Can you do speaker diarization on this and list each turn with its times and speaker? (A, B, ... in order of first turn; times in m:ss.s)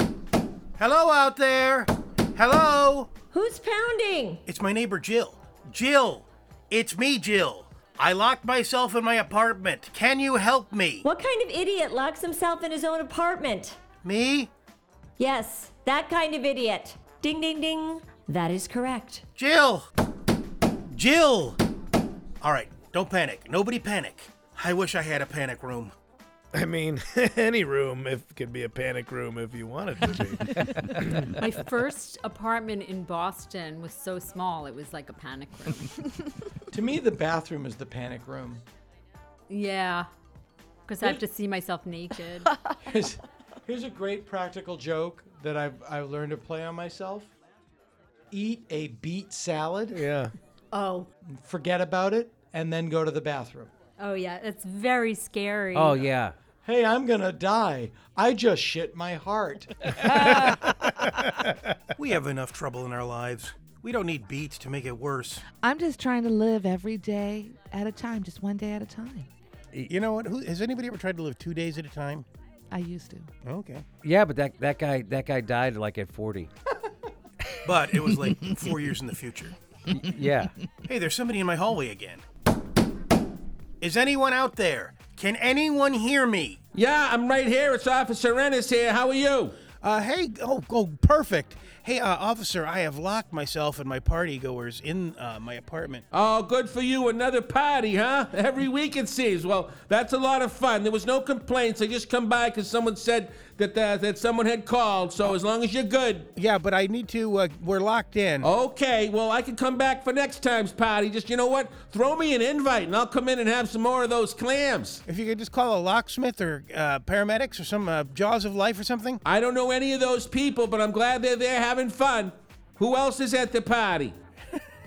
0:00.8-0:03.1 A
0:03.3-0:04.4 B
0:04.4-0:11.0 A
0:11.0-0:13.8 B
0:14.0-0:14.5 A
0:15.2-0:19.2 B
0:19.4-0:19.9 A
0:20.9-0:21.6 A
0:22.4-0:25.9 A
0:26.5-0:31.3 C
0:31.4-0:35.9 D
0:36.7-0:38.6 E
0:39.5-0:40.1 D
0:40.8-0:42.5 D
0:42.9-0:47.3 E
0:48.3-0:50.1 E
0:50.7-0:51.1 D
0:51.4-0:53.7 E
0:54.0-0:56.1 D
0:55.7-0:56.3 F
0:56.6-1:00.6 E
1:02.0-1:05.4 A
1:05.6-1:09.3 G
1:09.9-1:12.2 A
1:12.7-1:13.3 G
1:13.4-1:13.8 A
1:14.0-1:16.5 F
1:17.6-1:19.6 A
1:19.9-1:20.5 F
1:20.9-1:22.2 A
1:23.8-1:26.6 A
1:26.7-1:29.6 H
1:29.8-1:36.0 A
1:36.1-1:46.3 H
1:46.4-1:48.5 A
1:48.4-1:55.0 H
1:55.0-1:59.2 A
1:59.2-2:04.2 H